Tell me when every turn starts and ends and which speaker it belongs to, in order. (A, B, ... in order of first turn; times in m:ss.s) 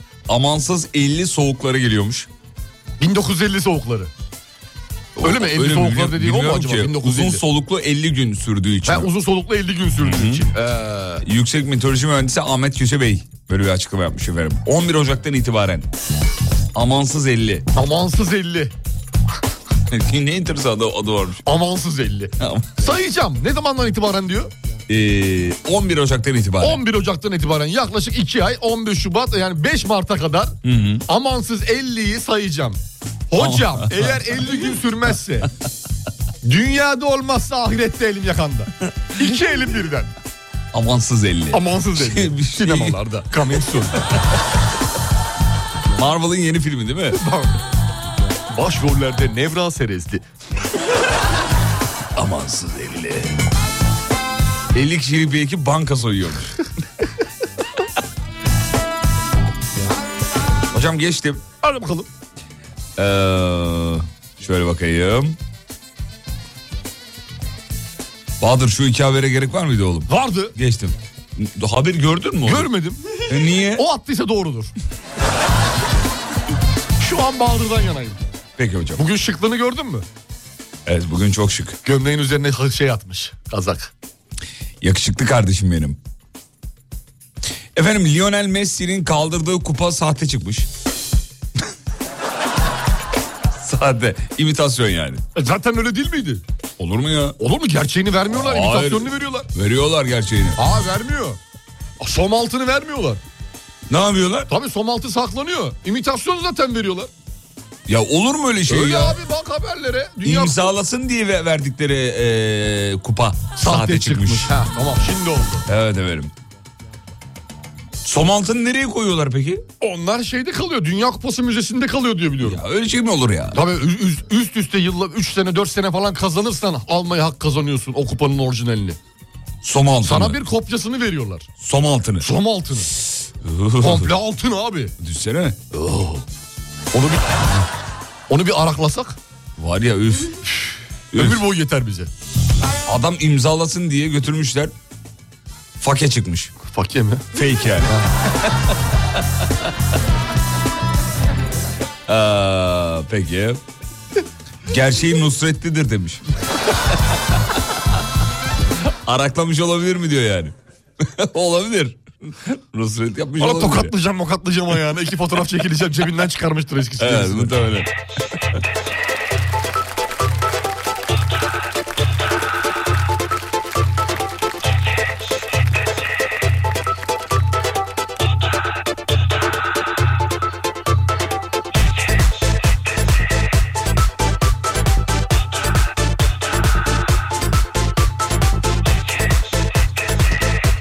0:00.3-0:02.3 A
0:03.0-0:04.1 B
0:05.2-0:07.4 B
0:05.2-0:09.1 A
0:08.8-0:11.2 B
0:10.0-0:10.4 A
0:11.2-0:15.9 A
0:16.7-0:17.7 A
0:17.7-0:18.7 B
0:19.9-0:21.4 A
0:21.4-0:24.5 B
0:22.4-0:22.7 A
0:24.9-0:26.8 A
0:26.6-0:30.5 B
0:30.6-0:31.0 A
0:31.1-0:32.8 B
0:33.3-0:35.5 B
0:33.4-0:34.6 A
0:36.4-0:40.1 B
0:40.7-0:43.0 A
0:41.5-0:44.1 B
0:45.9-0:47.2 A
0:47.1-0:47.6 B
0:48.5-0:50.3 B
0:52.2-0:53.4 A
0:54.7-0:56.6 A
1:00.7-1:01.4 A
1:01.6-1:02.1 B
1:03.0-1:05.4 A
1:08.4-1:12.7 A
1:10.1-1:10.5 B
1:12.4-1:13.2 B
1:13.2-1:13.8 A
1:13.7-1:14.7 B
1:17.0-1:18.2 B
1:18.6-1:19.0 A
1:19.0-1:20.0 B
1:20.8-1:21.8 A
1:21.8-1:23.9 B
1:24.8-1:26.0 A
1:27.7-1:30.7 A
1:33.6-1:35.2 A
1:35.3-1:36.4 B
1:36.8-1:37.4 A
1:37.4-1:39.5 B
1:38.3-1:40.6 A
1:40.6-1:41.4 B
1:42.0-1:43.2 B
1:43.9-1:44.5 A
1:44.5-1:47.1 B
1:47.9-1:49.2 A
1:48.7-1:50.7 B
1:50.2-1:54.6 A
1:53.6-1:55.6 B
1:55.7-1:56.3 A
1:58.0-1:59.6 A
1:59.8-2:02.6 B
2:02.4-2:03.6 A
2:03.5-2:09.0 B
2:09.6-2:10.4 A
2:10.0-2:11.5 B
2:11.6-2:12.3 A
2:12.2-2:12.9 B
2:13.4-2:14.1 A
2:13.8-2:14.9 B
2:15.0-2:15.6 A
2:15.7-2:16.2 B
2:16.9-2:17.6 B
2:18.3-2:19.2 B
2:19.6-2:20.4 A
2:21.1-2:21.4 A
2:21.1-2:22.1 B
2:22.8-2:24.7 A
2:25.8-2:26.5 A
2:26.7-2:27.2 B
2:27.3-2:28.5 A
2:32.1-2:33.6 A
2:34.7-2:36.2 A
2:38.9-2:43.9 A
2:43.4-2:47.5 B
2:47.0-2:47.9 A